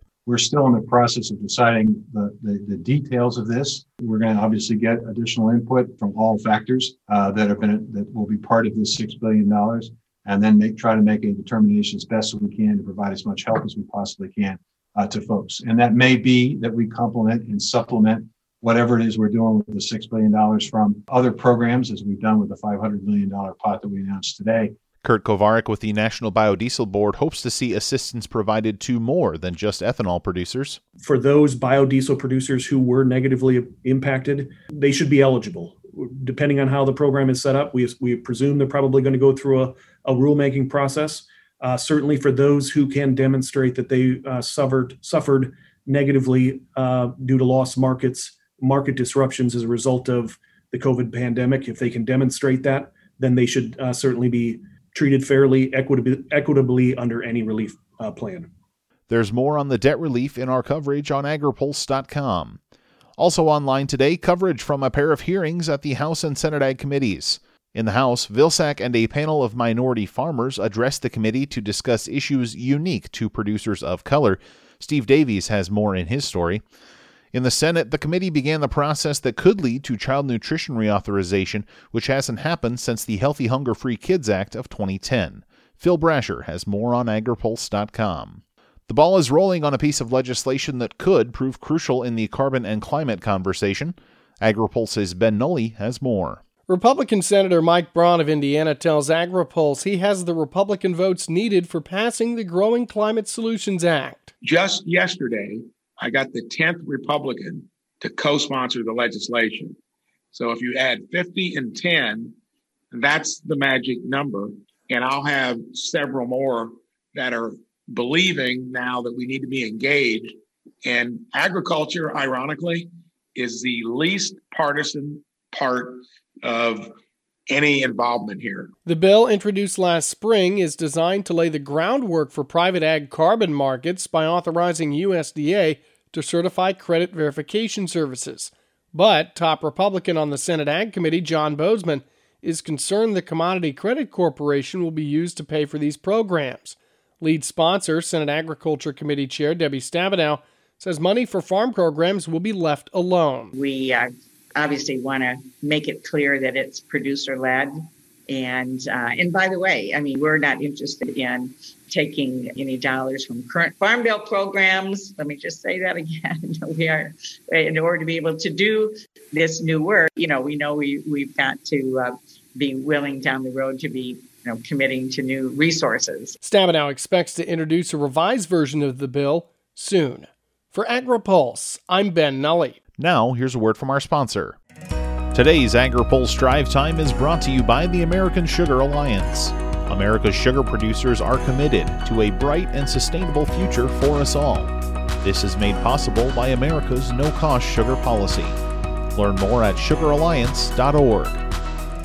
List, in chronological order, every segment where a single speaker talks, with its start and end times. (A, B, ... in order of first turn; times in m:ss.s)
0:00.3-0:24.7 A
0:25.0-0:30.8 B
0:31.0-0:58.5 C
0:59.1-1:02.6 B
1:03.2-1:16.6 B
1:17.3-1:36.4 B
1:36.7-1:44.3 D
1:44.4-1:49.8 E
1:50.3-1:52.3 E
1:52.9-2:00.3 E
2:00.8-2:06.9 E
2:07.5-2:08.7 E
2:08.8-2:33.5 D
2:33.6-2:56.4 F
2:56.4-3:02.8 D
3:03.0-3:04.6 B
3:05.3-3:18.6 B
3:19.2-3:21.4 B